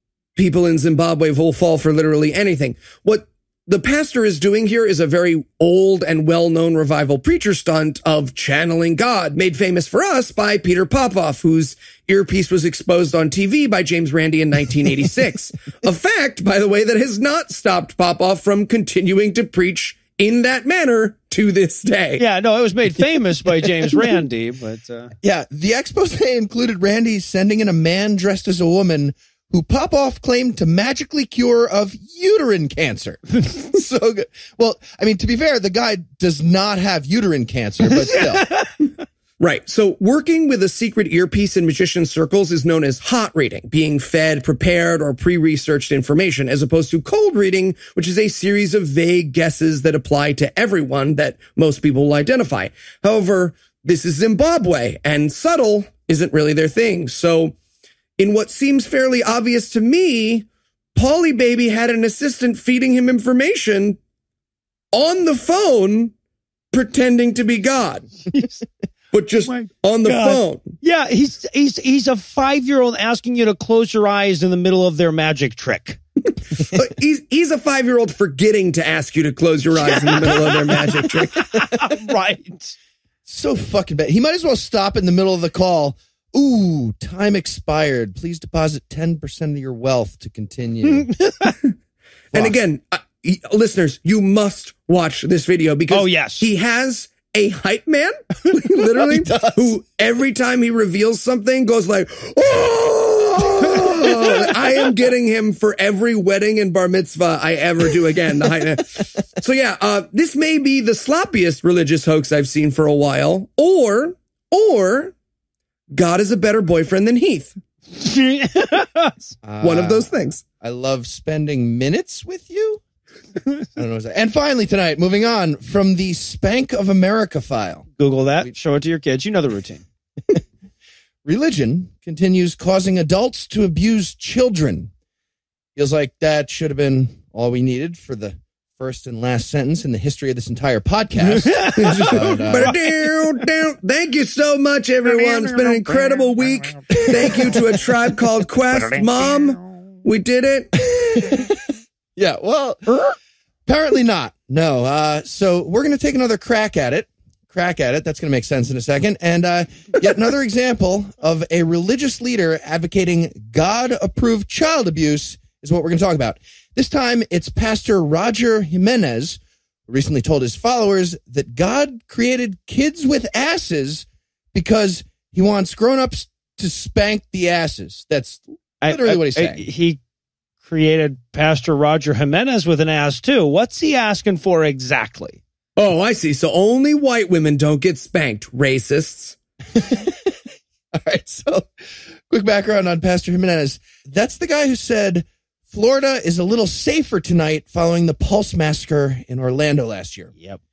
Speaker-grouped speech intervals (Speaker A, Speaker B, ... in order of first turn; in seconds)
Speaker A: 0.4-22.2, 39.4-57.5, 58.2-64.0, 64.9-66.1, 66.7-68.2, 69.1-70.8, 76.6-81.4, 92.3-115.1, 115.9-117.6, 119.6-120.4, 141.8-151.4, 185.8-189.4
Speaker B: 22.2-25.1, 38.0-38.7, 68.3-68.6, 69.5-76.0, 79.8-82.8, 91.1-91.5, 95.9-96.5, 117.9-119.3, 128.0-129.8, 141.4-143.2, 145.1-145.8, 178.8-180.0, 180.6-185.4
Speaker C: 25.2-38.5, 83.3-91.1, 92.3-92.6, 98.8-99.7, 119.4-122.8, 123.8-127.9, 131.2-134.9, 135.8-142.7, 147.0-147.5, 151.1-151.6, 152.2-152.8, 153.7-179.7, 189.8-190.3, 190.9-191.7, 192.3-200.3